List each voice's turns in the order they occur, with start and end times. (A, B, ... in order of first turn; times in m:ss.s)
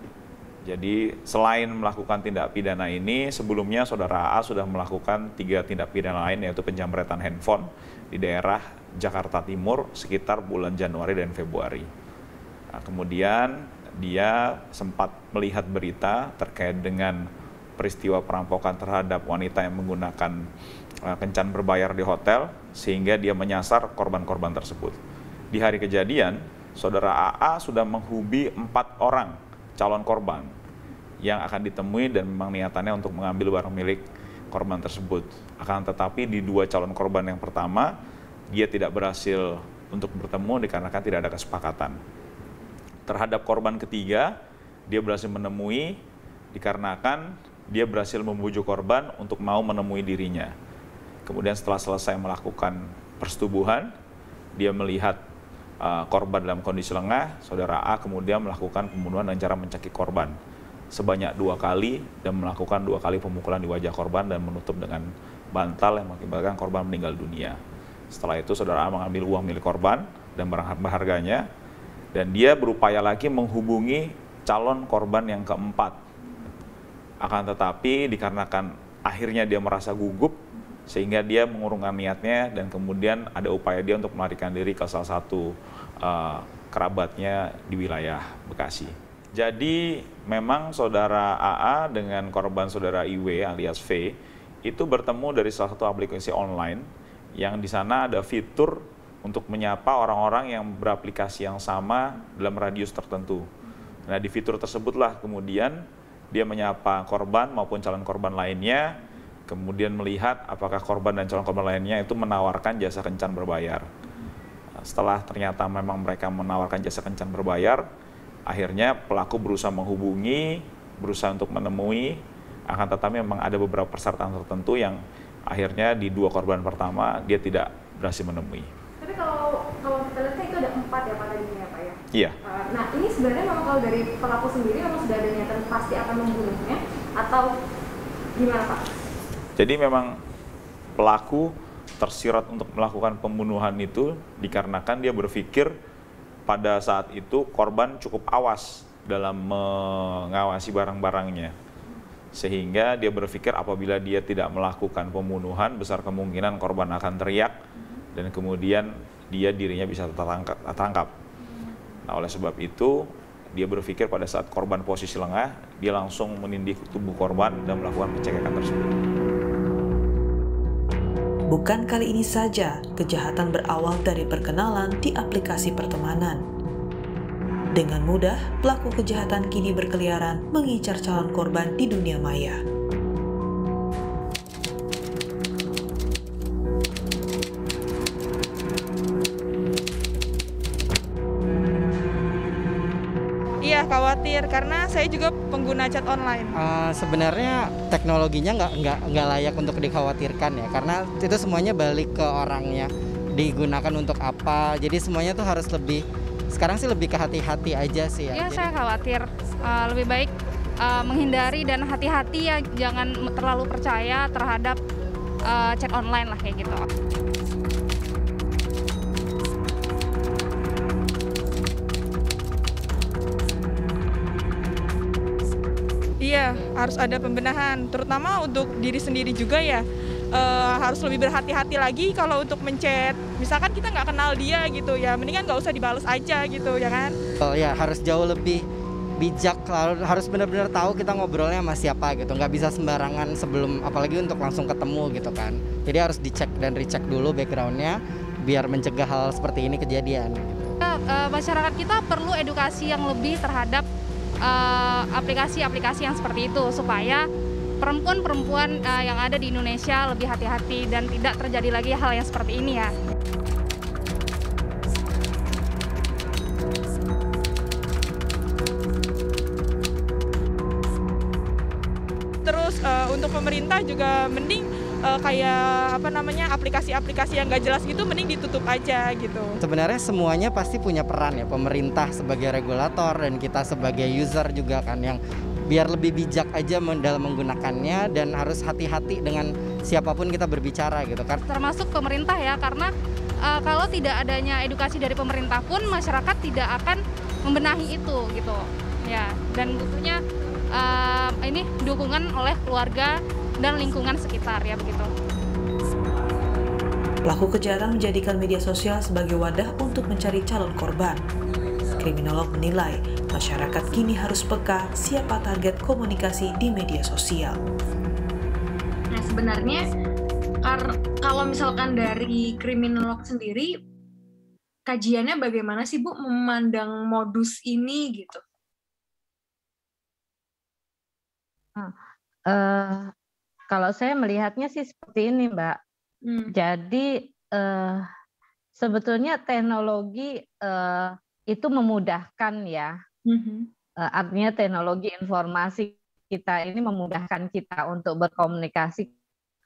0:00.6-0:11.8 A
0:12.7-0:17.2 A
0:17.8-0:20.4 A
0:21.1-0:25.0 A
0:25.5-0:30.5 A
0:31.2-0:37.9 A
0:38.5-0:42.0 A
0:43.1-0:44.3 A
0:44.9-0:46.0 A
0:46.5-0:50.5 A
0:51.2-0:53.9 A
0:54.6-0:55.2 A
0:55.8-1:00.3 A
1:00.9-1:07.6 A
1:08.1-1:11.4 A
1:12.1-1:15.9 A
1:17.2-1:20.4 A
1:20.9-1:25.5 A
1:26.0-1:34.1 A
1:34.6-1:36.8 A
1:37.4-1:43.4 A
1:44.1-1:45.8 A
1:46.3-1:48.8 A
1:49.5-1:53.8 A
1:54.9-1:57.8 A
1:58.5-2:02.2 A
2:02.7-2:08.7 A
2:09.0-2:09.4 B
2:09.9-2:11.9 B
2:12.7-2:16.7 B
2:18.4-2:18.8 B
2:19.6-2:20.1 A
2:21.0-2:21.5 A
2:22.0-2:25.7 A
2:26.5-2:31.5 A
2:32.3-2:37.5 A
2:38.1-2:41.1 A
2:42.1-2:42.9 A
2:43.5-2:48.9 A
2:51.5-2:56.4 C
2:57.7-3:02.6 C
3:13.6-3:16.5 D
3:16.5-3:28.7 E
3:28.3-3:30.3 F
3:30.9-3:34.7 F
3:32.2-3:34.7 D
3:35.5-3:36.7 F
3:35.6-3:36.8 D
3:46.2-3:49.8 D
3:50.3-3:57.1 D
3:57.4-3:58.6 E
3:59.2-4:10.4 E
4:10.8-4:13.8 F
4:14.5-4:17.2 F
4:15.3-4:15.8 D
4:16.3-4:17.1 D
4:17.8-4:22.9 F
4:19.1-4:20.1 D
4:32.5-4:39.5 D
4:39.6-4:51.4 E
4:51.5-4:52.9 F
4:53.5-4:58.6 F
4:59.1-5:00.2 F
5:00.8-5:03.1 F
5:03.6-5:05.0 F
5:04.5-5:05.0 D
5:07.2-5:11.2 C
5:12.0-5:17.6 C
5:19.1-5:19.9 G
5:20.6-5:23.8 G
5:24.8-5:28.4 G
5:32.5-5:33.1 H
5:33.7-5:35.8 H
5:36.2-5:36.5 G
5:36.6-5:37.0 H
5:37.6-5:38.0 H
5:38.8-5:42.9 H
5:43.2-5:43.7 G
5:44.1-5:49.1 H